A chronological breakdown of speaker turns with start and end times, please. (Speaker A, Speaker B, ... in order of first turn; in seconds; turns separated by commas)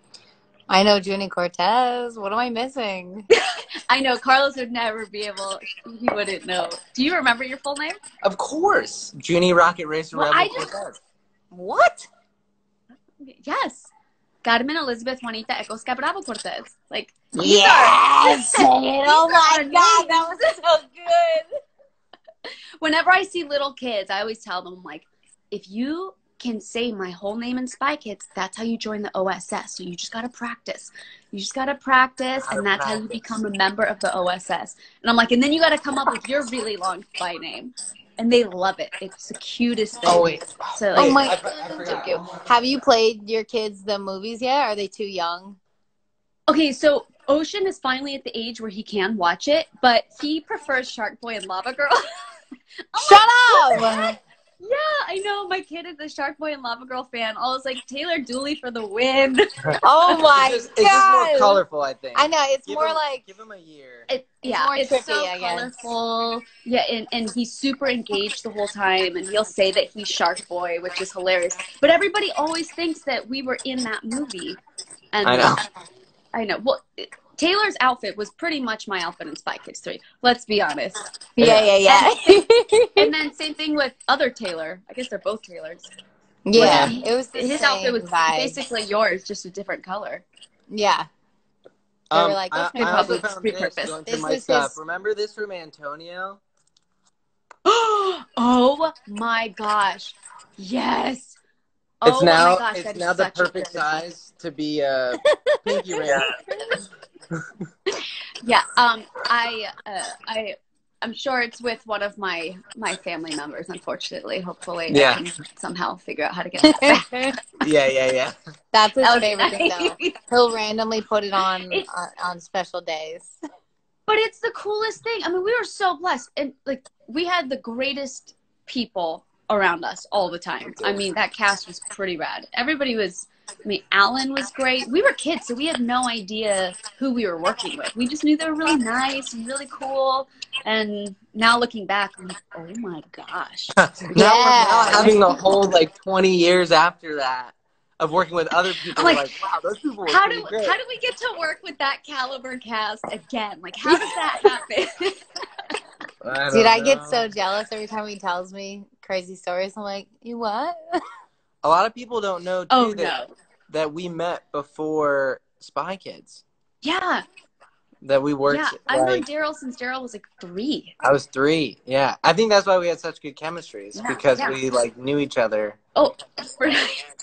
Speaker A: 0.7-3.3, Speaker B: 3.3-8.0, Speaker C: 8.2-11.0, Speaker B: 10.1-10.7, Speaker A: 11.5-12.1, Speaker B: 13.2-13.9, Speaker B: 14.4-20.6, Speaker A: 17.3-21.4, Speaker B: 22.8-42.2, Speaker C: 32.4-33.4, Speaker C: 40.0-42.7, Speaker A: 40.9-45.6, Speaker B: 46.5-52.3, Speaker B: 52.9-59.5, Speaker A: 53.0-54.2, Speaker A: 59.8-61.6, Speaker C: 60.2-64.1, Speaker A: 62.1-63.2, Speaker B: 64.1-74.6, Speaker A: 64.4-65.7, Speaker B: 75.1-75.6, Speaker C: 75.2-75.6, Speaker B: 76.3-81.0, Speaker A: 81.4-83.1, Speaker C: 81.4-81.7, Speaker B: 81.8-82.4, Speaker B: 83.0-85.9, Speaker A: 86.5-88.6, Speaker C: 86.5-86.9, Speaker B: 86.5-90.2, Speaker A: 90.7-91.0, Speaker C: 92.1-96.4, Speaker A: 92.1-93.2, Speaker B: 92.7-94.0, Speaker A: 94.0-94.8, Speaker B: 97.7-101.4, Speaker B: 102.0-104.0, Speaker C: 102.0-106.3, Speaker A: 105.2-106.0, Speaker B: 107.9-117.1, Speaker C: 114.9-115.2, Speaker A: 116.6-117.3, Speaker C: 117.6-118.3, Speaker A: 118.7-123.4, Speaker B: 119.0-120.2, Speaker B: 124.1-143.8, Speaker C: 143.8-150.8, Speaker A: 144.1-145.1, Speaker B: 144.9-145.3, Speaker B: 148.9-149.3, Speaker B: 150.1-155.2, Speaker A: 153.9-154.2, Speaker C: 156.2-157.3, Speaker A: 156.5-161.0, Speaker C: 161.6-163.2, Speaker B: 162.7-163.3, Speaker C: 163.7-166.4, Speaker B: 166.8-167.2, Speaker C: 168.0-169.2, Speaker B: 168.5-170.9, Speaker C: 171.0-175.8, Speaker B: 173.9-174.6, Speaker B: 175.9-177.0